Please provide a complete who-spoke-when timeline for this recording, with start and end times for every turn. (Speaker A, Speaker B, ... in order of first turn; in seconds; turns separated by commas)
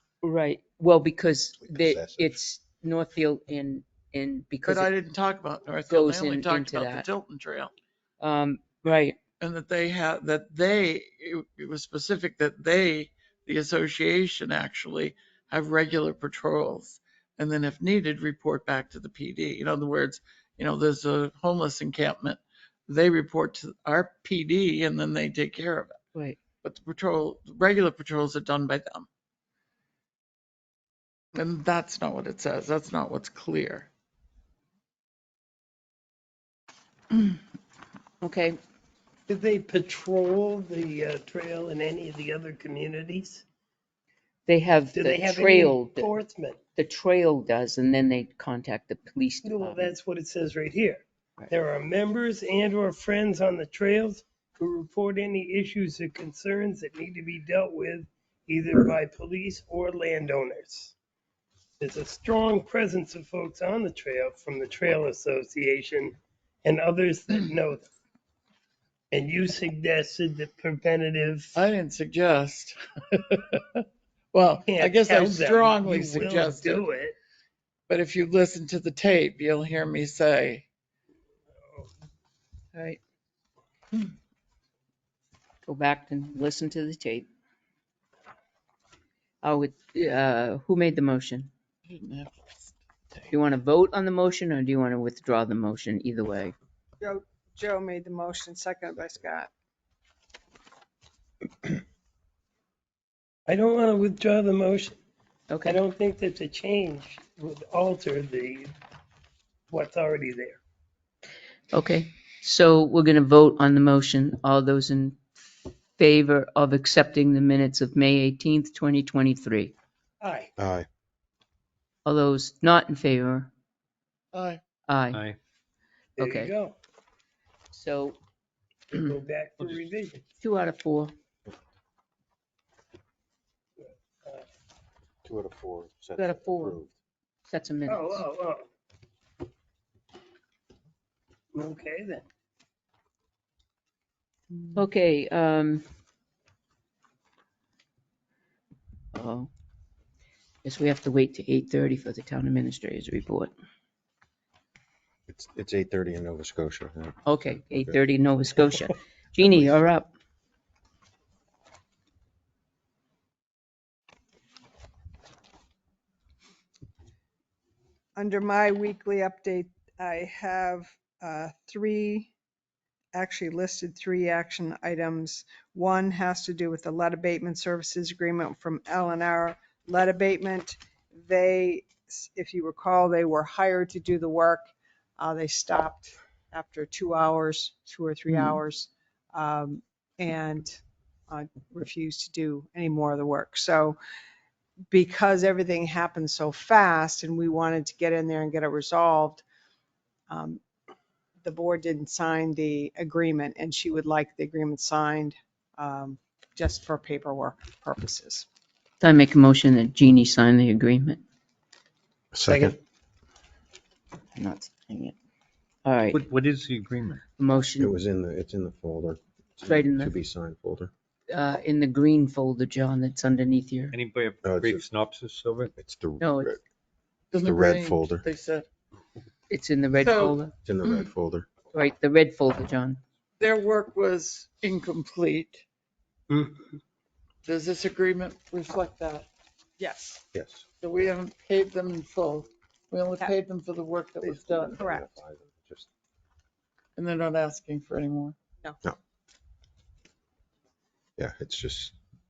Speaker A: 0.2-4.9, Speaker B: 1.6-2.4, Speaker C: 4.7-7.7, Speaker A: 5.9-7.1, Speaker A: 8.2-9.2, Speaker C: 9.4-26.0, Speaker C: 26.6-29.1, Speaker C: 31.4-33.9, Speaker A: 38.2-38.6, Speaker D: 39.3-43.5, Speaker A: 44.5-46.2, Speaker D: 44.9-46.6, Speaker A: 46.8-49.9, Speaker D: 49.5-61.0, Speaker D: 61.8-67.9, Speaker D: 69.1-71.5, Speaker C: 71.5-76.9, Speaker D: 74.7-77.2, Speaker C: 77.9-80.7, Speaker D: 81.6-81.9, Speaker A: 82.7-83.0, Speaker A: 85.7-87.3, Speaker A: 89.4-91.5, Speaker C: 91.9-93.3, Speaker A: 93.3-96.5, Speaker E: 97.0-99.5, Speaker D: 103.5-105.0, Speaker A: 105.5-105.8, Speaker D: 105.7-108.7, Speaker D: 109.7-110.6, Speaker A: 111.7-115.2, Speaker A: 116.0-119.7, Speaker D: 120.2-120.5, Speaker B: 120.6-120.9, Speaker A: 122.0-123.5, Speaker C: 124.3-124.6, Speaker A: 124.9-125.2, Speaker D: 126.2-126.8, Speaker A: 126.2-126.5, Speaker A: 127.7-128.2, Speaker D: 128.9-130.3, Speaker A: 130.4-131.1, Speaker D: 133.8-134.4, Speaker B: 135.2-136.9, Speaker A: 136.2-136.8, Speaker A: 137.4-138.2, Speaker D: 137.9-138.6, Speaker D: 141.5-142.2, Speaker A: 144.8-145.8, Speaker A: 149.1-149.5, Speaker A: 150.6-153.5, Speaker B: 155.3-157.2, Speaker A: 157.3-160.1, Speaker B: 159.4-159.8, Speaker E: 168.2-172.3, Speaker E: 173.1-194.0, Speaker E: 194.9-199.4, Speaker E: 200.3-200.6, Speaker E: 201.4-208.5, Speaker A: 209.0-211.2, Speaker B: 212.3-212.8, Speaker D: 212.5-212.8, Speaker A: 214.4-215.2, Speaker A: 215.8-216.2, Speaker F: 216.1-217.2, Speaker A: 217.4-218.0, Speaker B: 217.8-220.9, Speaker A: 219.6-220.1, Speaker A: 221.3-224.0, Speaker F: 223.9-225.7, Speaker B: 224.4-224.9, Speaker B: 225.8-226.6, Speaker A: 226.2-226.6, Speaker C: 227.3-228.7, Speaker B: 227.4-228.3, Speaker A: 229.5-230.5, Speaker C: 230.0-230.4, Speaker B: 230.6-231.5, Speaker A: 231.7-233.0, Speaker C: 233.4-235.7, Speaker D: 236.3-236.8, Speaker C: 237.4-239.3, Speaker E: 239.8-240.2, Speaker B: 240.3-240.7, Speaker C: 240.8-244.9, Speaker B: 244.2-245.9, Speaker E: 244.8-245.1, Speaker C: 247.0-248.3, Speaker B: 251.2-251.9